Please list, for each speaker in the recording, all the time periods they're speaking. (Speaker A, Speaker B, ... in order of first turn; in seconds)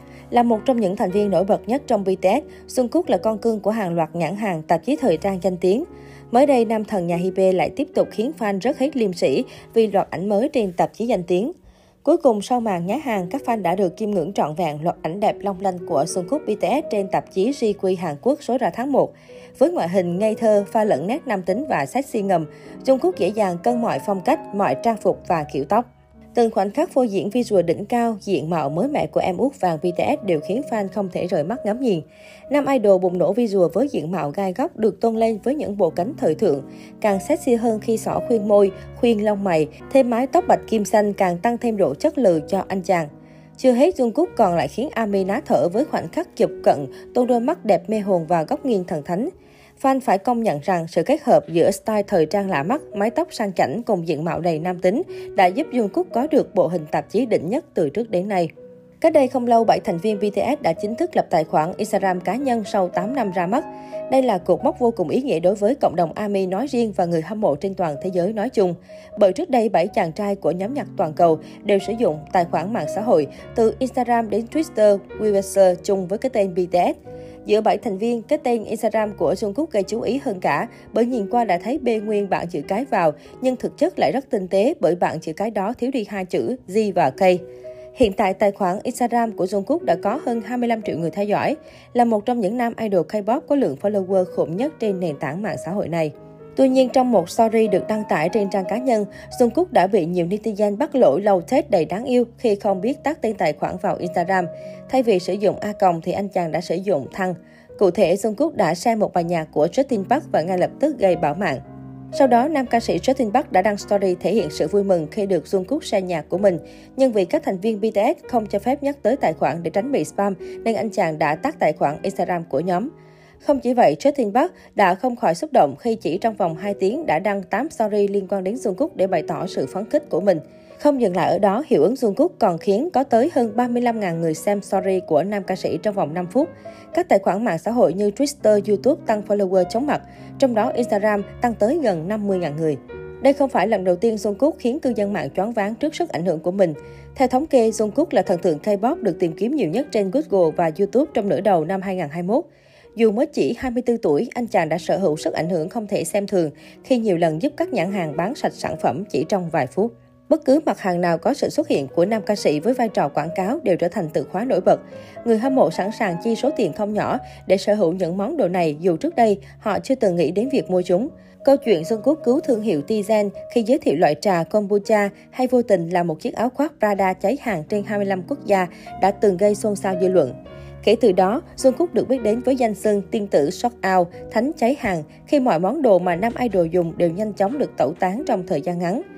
Speaker A: 0.3-11.5, 12.0-58.5, 59.0-87.4, 88.0-111.6, 112.1-122.9, 123.4-152.4, 153.0-189.0